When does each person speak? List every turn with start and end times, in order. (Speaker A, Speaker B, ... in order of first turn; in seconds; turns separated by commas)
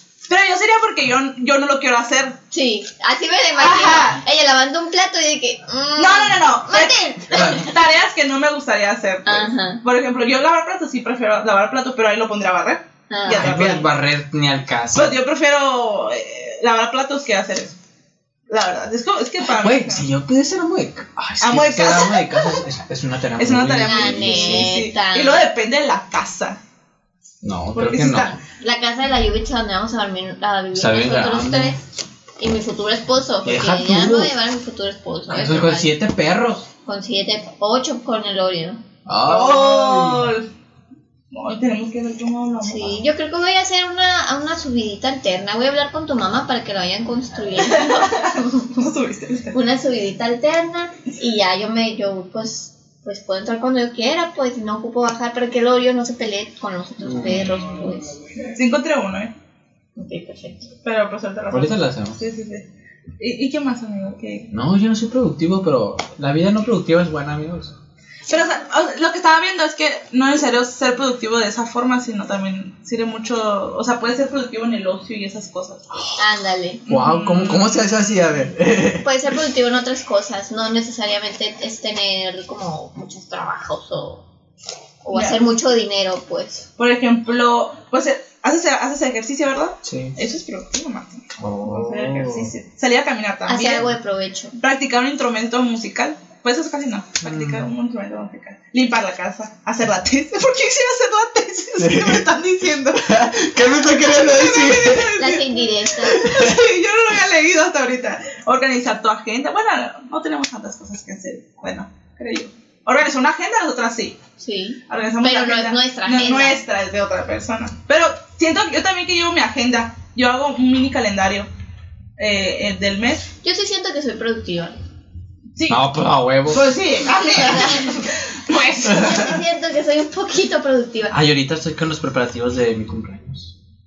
Speaker A: 0.3-2.4, Speaker B: 2.5-7.7, Speaker A: 3.6-4.2, Speaker A: 6.0-13.9, Speaker C: 7.3-7.7, Speaker B: 9.2-9.8, Speaker B: 13.1-13.5, Speaker C: 13.3-15.2, Speaker A: 14.9-17.7, Speaker A: 18.5-20.1, Speaker C: 19.6-24.7, Speaker A: 21.4-22.6, Speaker A: 23.4-26.6, Speaker B: 23.8-25.4, Speaker C: 27.4-28.4, Speaker A: 27.7-28.4, Speaker B: 28.5-31.8, Speaker C: 30.7-31.8, Speaker B: 32.4-35.9, Speaker C: 33.4-34.3, Speaker C: 35.3-36.7, Speaker B: 36.9-38.8, Speaker C: 39.0-40.4, Speaker A: 39.2-40.5, Speaker A: 41.3-43.0, Speaker B: 42.6-48.8, Speaker A: 47.6-49.5, Speaker B: 49.5-58.1, Speaker C: 57.0-57.6, Speaker A: 58.5-59.3, Speaker B: 60.0-60.7, Speaker A: 60.8-62.7, Speaker C: 61.5-62.2, Speaker A: 63.2-64.5, Speaker C: 64.5-67.8, Speaker A: 68.3-75.9, Speaker B: 76.2-76.8, Speaker A: 76.9-78.2, Speaker C: 76.9-79.1, Speaker B: 79.0-84.2, Speaker B: 85.0-86.7, Speaker A: 85.1-85.4, Speaker A: 86.8-93.9, Speaker C: 89.8-90.2, Speaker C: 91.4-92.5, Speaker B: 93.5-94.6, Speaker A: 94.6-114.2, Speaker C: 97.2-97.7, Speaker C: 101.8-102.3, Speaker C: 102.9-105.2, Speaker B: 105.2-106.2, Speaker C: 106.0-106.6, Speaker B: 114.4-116.6, Speaker A: 114.9-121.5, Speaker A: 122.2-123.3, Speaker B: 123.4-124.8, Speaker A: 125.5-125.8, Speaker C: 125.7-126.7, Speaker A: 126.5-129.2, Speaker B: 127.2-128.0, Speaker B: 128.9-131.1, Speaker C: 128.9-129.3, Speaker C: 131.1-133.6